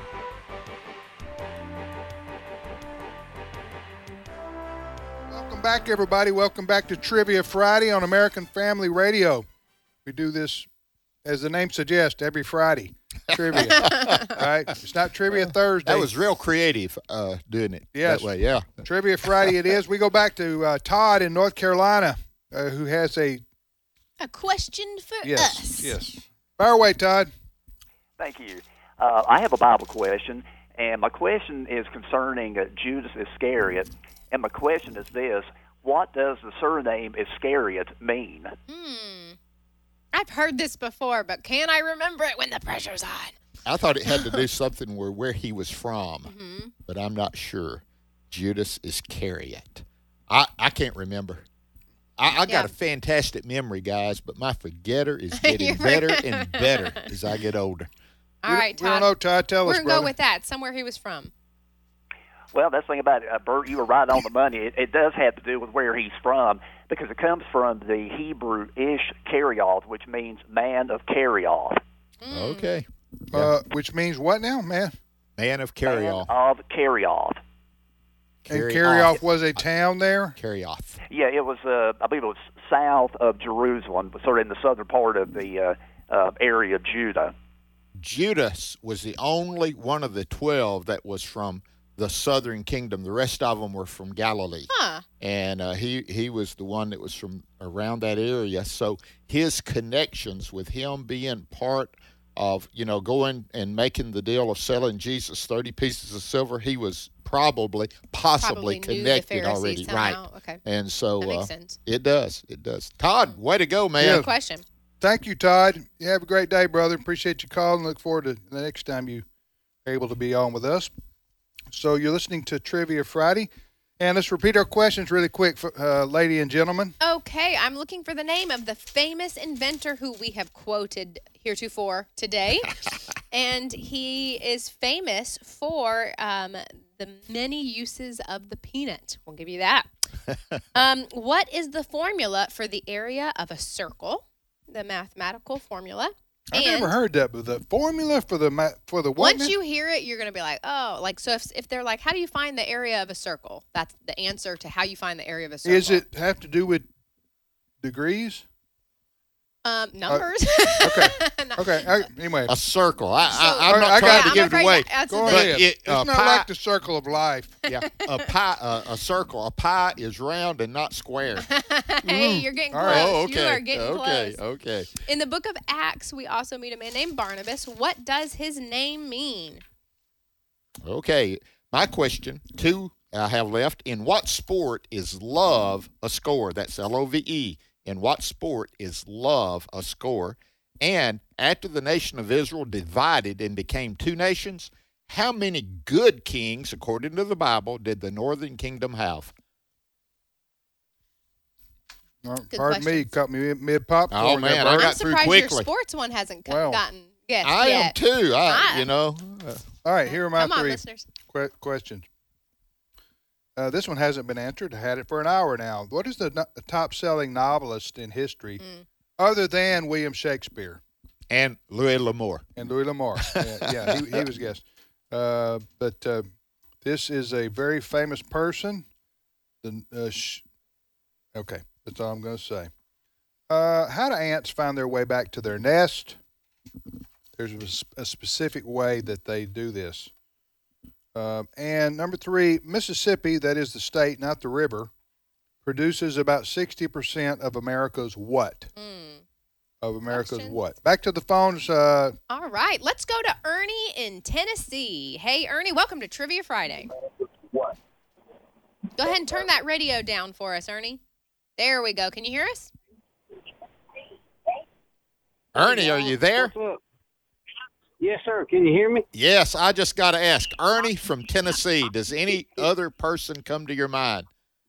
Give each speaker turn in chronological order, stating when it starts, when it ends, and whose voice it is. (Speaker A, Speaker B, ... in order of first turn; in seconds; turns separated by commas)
Speaker A: 5.3-9.5, Speaker A: 10.1-10.7, Speaker A: 11.2-16.1, Speaker B: 13.3-14.4, Speaker B: 15.8-19.5, Speaker A: 17.9-23.4, Speaker C: 24.2-26.0, Speaker A: 25.2-27.3, Speaker D: 28.2-38.5, Speaker C: 38.7-39.4, Speaker C: 40.1-43.4, Speaker B: 43.7-46.3, Speaker C: 44.1-44.4, Speaker C: 46.2-46.7, Speaker B: 46.9-51.5, Speaker B: 52.2-57.9, Speaker C: 52.5-52.7, Speaker C: 55.4-57.0, Speaker C: 58.4-61.3, Speaker A: 58.5-60.1, Speaker D: 62.5-71.8, Speaker C: 72.2-72.7, Speaker B: 72.3-73.5, Speaker A: 73.3-75.0, Speaker B: 75.4-76.3, Speaker D: 75.8-77.4, Speaker B: 78.4-79.6, Speaker A: 78.5-80.4, Speaker B: 80.4-81.0, Speaker D: 81.1-87.3, Speaker B: 88.0-114.2, Speaker C: 94.7-95.0, Speaker C: 108.4-110.6, Speaker C: 111.2-111.8, Speaker A: 114.0-114.3, Speaker C: 114.0-114.6, Speaker A: 115.0-119.2, Speaker A: 119.8-120.9, Speaker A: 121.7-127.0, Speaker C: 127.0-132.8, Speaker C: 133.3-139.9, Speaker C: 140.7-147.0, Speaker A: 146.5-149.5, Speaker C: 149.2-156.0, Speaker A: 155.6-156.9, Speaker A: 157.8-158.4, Speaker C: 159.7-162.1, Speaker A: 160.8-162.5, Speaker B: 162.5-166.5, Speaker C: 163.3-165.6, Speaker A: 163.6-167.6, Speaker C: 167.7-168.3, Speaker B: 167.7-171.5, Speaker C: 171.4-174.4, Speaker B: 172.0-174.9, Speaker A: 172.7-173.1, Speaker C: 175.1-179.6, Speaker B: 180.8-199.3, Speaker A: 202.2-205.0, Speaker C: 202.5-203.1, Speaker B: 204.1-205.7, Speaker C: 204.6-208.9, Speaker A: 206.5-206.8, Speaker B: 207.4-209.6, Speaker A: 209.8-212.1, Speaker C: 210.1-211.1, Speaker A: 213.6-218.6, Speaker C: 218.6-218.8, Speaker A: 219.2-220.8, Speaker B: 221.3-222.5, Speaker A: 222.6-226.3, Speaker B: 223.2-224.2, Speaker A: 226.8-228.9, Speaker A: 229.6-230.4, Speaker A: 231.3-232.7, Speaker A: 233.5-236.2, Speaker A: 237.4-240.1, Speaker A: 241.2-244.9, Speaker A: 245.7-248.7, Speaker C: 248.8-249.2, Speaker A: 249.8-252.2, Speaker C: 250.1-250.6, Speaker C: 252.3-256.9, Speaker C: 259.0-261.0, Speaker C: 261.6-262.7, Speaker B: 265.6-266.5, Speaker E: 265.6-266.8, Speaker E: 268.0-269.1, Speaker B: 269.1-274.3